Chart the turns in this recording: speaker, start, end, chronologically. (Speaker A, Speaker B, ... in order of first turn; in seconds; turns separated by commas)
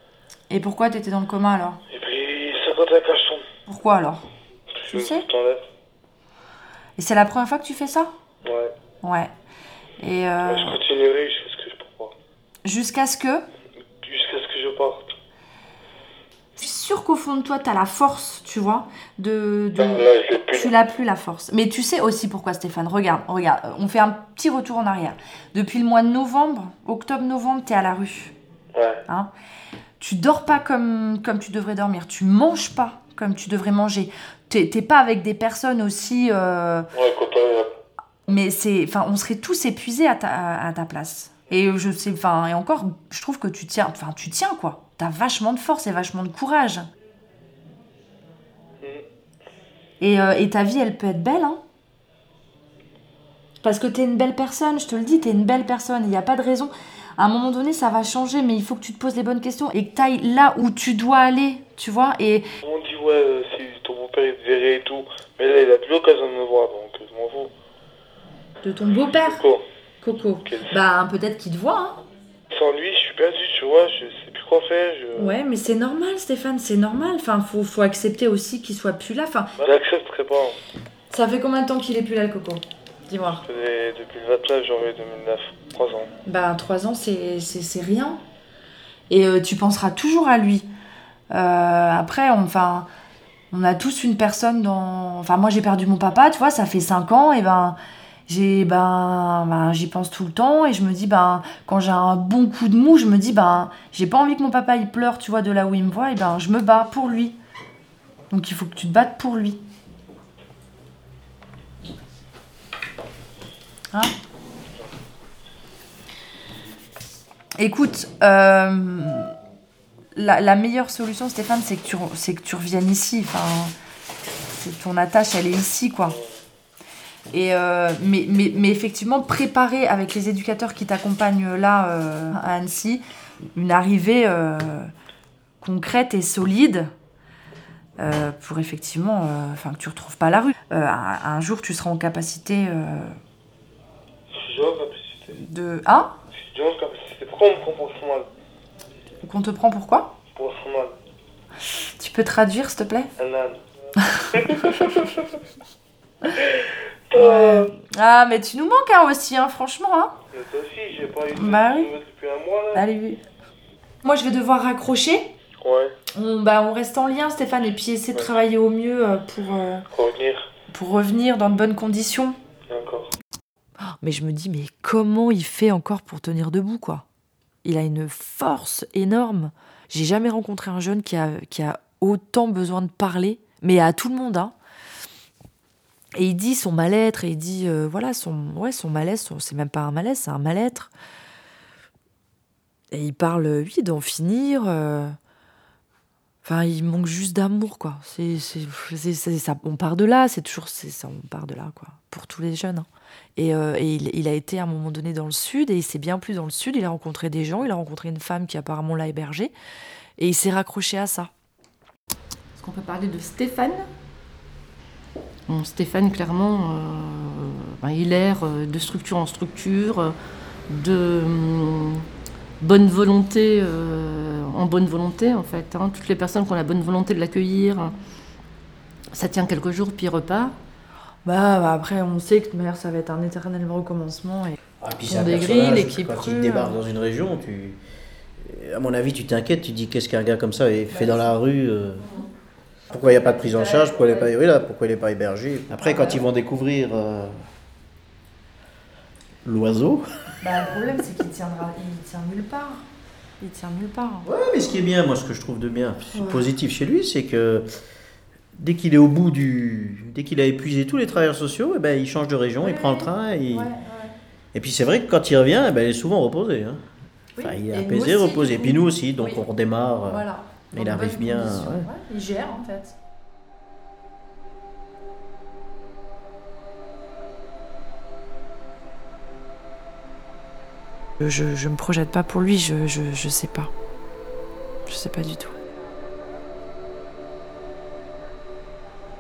Speaker A: 0.5-1.8, Speaker B: 1.9-3.5, Speaker A: 3.7-4.3, Speaker B: 4.8-5.7, Speaker A: 4.9-5.3, Speaker A: 7.0-8.1, Speaker B: 8.4-8.7, Speaker A: 9.0-9.3, Speaker A: 10.0-10.8, Speaker B: 10.4-12.1, Speaker A: 12.7-13.4, Speaker B: 14.0-15.1, Speaker A: 16.6-28.3, Speaker B: 19.8-20.7, Speaker B: 28.7-29.0, Speaker A: 30.0-36.9, Speaker B: 36.9-37.7, Speaker A: 38.3-46.9, Speaker A: 50.0-51.6, Speaker A: 53.6-62.5, Speaker B: 62.6-67.5, Speaker A: 68.6-69.4, Speaker B: 69.2-69.6, Speaker A: 70.0-72.0, Speaker B: 70.4-70.8, Speaker B: 72.5-75.4, Speaker A: 75.2-79.5, Speaker B: 79.6-80.6, Speaker A: 81.1-83.4, Speaker B: 83.4-86.1, Speaker A: 86.3-88.2, Speaker A: 89.1-90.7, Speaker A: 91.3-92.9, Speaker A: 93.5-107.4, Speaker A: 108.3-109.6, Speaker A: 117.6-119.3, Speaker A: 120.2-123.7, Speaker A: 124.5-126.2, Speaker B: 126.1-126.4, Speaker A: 127.3-133.0, Speaker A: 133.6-134.9, Speaker A: 135.6-136.9, Speaker A: 138.0-143.2, Speaker B: 144.3-145.4, Speaker A: 145.3-146.2, Speaker B: 146.3-148.3, Speaker A: 149.2-150.2, Speaker B: 150.3-150.9, Speaker A: 152.0-153.1, Speaker B: 153.2-153.6, Speaker A: 154.0-154.8, Speaker B: 154.3-155.3, Speaker B: 156.3-157.7, Speaker A: 157.1-160.2, Speaker B: 160.3-162.9, Speaker A: 161.3-161.9, Speaker A: 162.7-163.2, Speaker A: 164.0-165.3, Speaker B: 165.6-165.9, Speaker A: 166.1-169.8, Speaker B: 168.1-168.4, Speaker B: 169.9-170.5, Speaker A: 170.7-172.4, Speaker B: 172.7-173.1, Speaker A: 173.8-177.1, Speaker A: 177.6-184.6, Speaker A: 186.2-190.9, Speaker A: 192.9-195.2, Speaker A: 196.4-209.5, Speaker A: 210.2-211.3, Speaker C: 212.6-213.9, Speaker C: 215.5-220.2, Speaker C: 220.7-222.1, Speaker C: 222.6-228.0, Speaker C: 229.1-230.6, Speaker A: 231.2-236.8, Speaker D: 234.8-237.8, Speaker D: 238.4-242.1, Speaker A: 240.9-241.3, Speaker D: 242.9-247.4, Speaker A: 242.9-244.3, Speaker A: 245.7-246.2, Speaker D: 249.4-250.1, Speaker A: 250.4-252.9, Speaker A: 253.4-254.3, Speaker D: 254.2-257.6, Speaker A: 256.1-256.5, Speaker D: 258.6-263.7, Speaker A: 262.6-264.1, Speaker D: 264.5-266.8, Speaker A: 267.4-269.4, Speaker D: 267.4-271.9, Speaker A: 270.1-272.9, Speaker A: 281.2-283.7, Speaker A: 284.9-285.5